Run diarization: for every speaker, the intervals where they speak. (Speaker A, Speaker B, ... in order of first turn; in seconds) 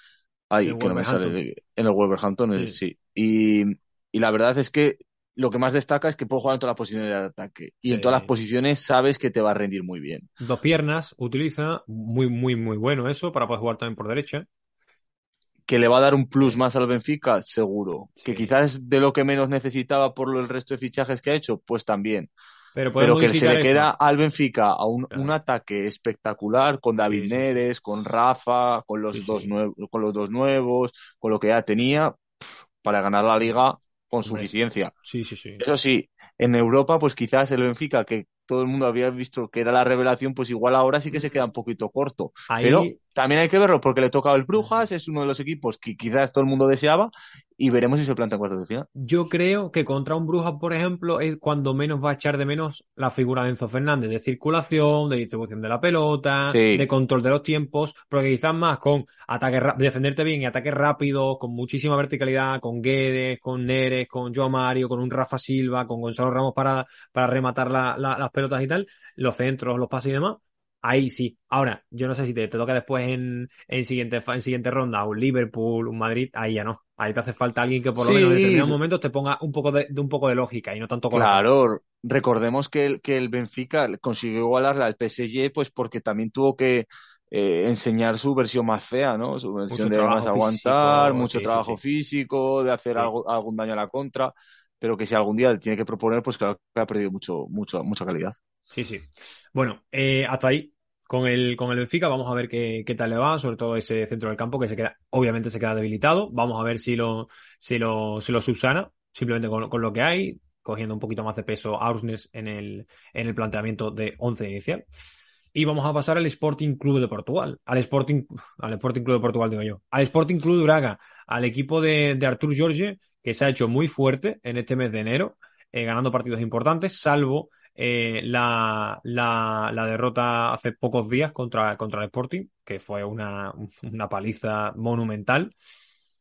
Speaker A: 0.5-10.3, 15.7-22.3, 23.0-34.9, 35.6-48.9, 56.5-56.9, 78.0-78.8, 81.1-98.4
Speaker B: 0.6-1.4, 7.9-8.3, 10.4-14.4, 18.1-18.5, 22.8-23.9, 27.1-27.6, 29.1-29.5, 34.2-34.5, 35.0-35.6, 41.1-41.4, 42.5-43.0, 44.6-44.8, 49.0-81.4, 89.7-91.8, 98.7-114.8, 115.5-135.5